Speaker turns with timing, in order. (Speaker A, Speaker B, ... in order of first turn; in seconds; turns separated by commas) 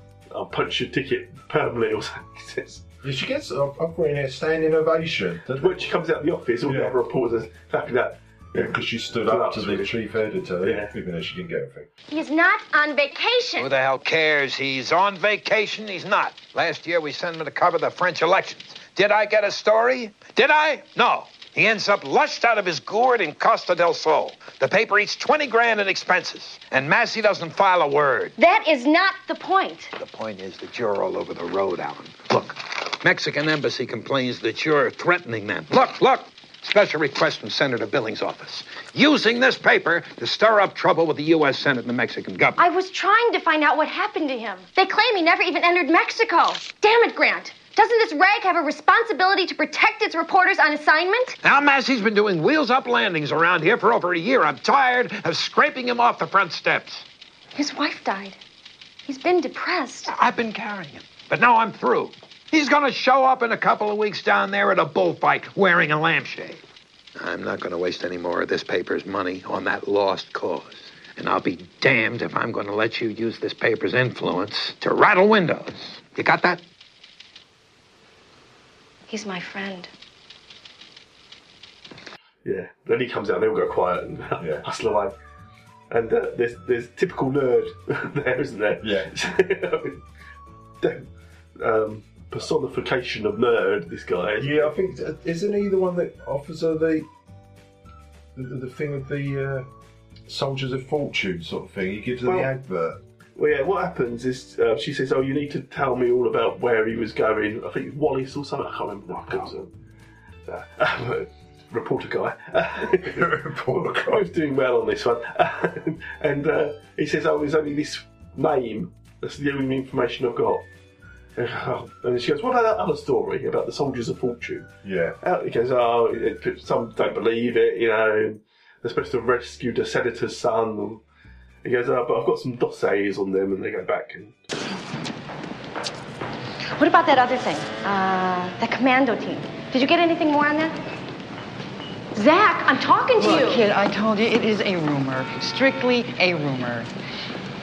Speaker A: 0.3-2.8, Speaker B: 3.0-5.9, Speaker A: 5.6-10.9, Speaker B: 6.6-7.0, Speaker B: 8.5-11.9, Speaker C: 12.1-13.7, Speaker D: 13.6-28.3, Speaker C: 28.4-29.9, Speaker D: 30.0-42.6, Speaker C: 42.6-51.4, Speaker D: 51.4-57.0, Speaker C: 57.5-58.4, Speaker C: 59.1-60.1, Speaker D: 60.1-66.6, Speaker D: 67.2-76.6, Speaker C: 79.1-79.9, Speaker A: 82.4-85.1, Speaker B: 84.4-84.6, Speaker A: 85.9-90.0, Speaker B: 88.8-89.1, Speaker A: 90.8-94.7, Speaker B: 94.4-97.1, Speaker B: 98.3-99.7, Speaker B: 100.3-103.0, Speaker A: 102.2-102.5, Speaker A: 103.3-109.7, Speaker A: 110.5-120.6, Speaker B: 112.9-114.3, Speaker A: 121.3-124.7, Speaker B: 124.8-125.2, Speaker A: 125.2-131.0, Speaker A: 131.6-134.3, Speaker C: 136.8-140.7, Speaker C: 142.1-143.6, Speaker E: 143.1-146.9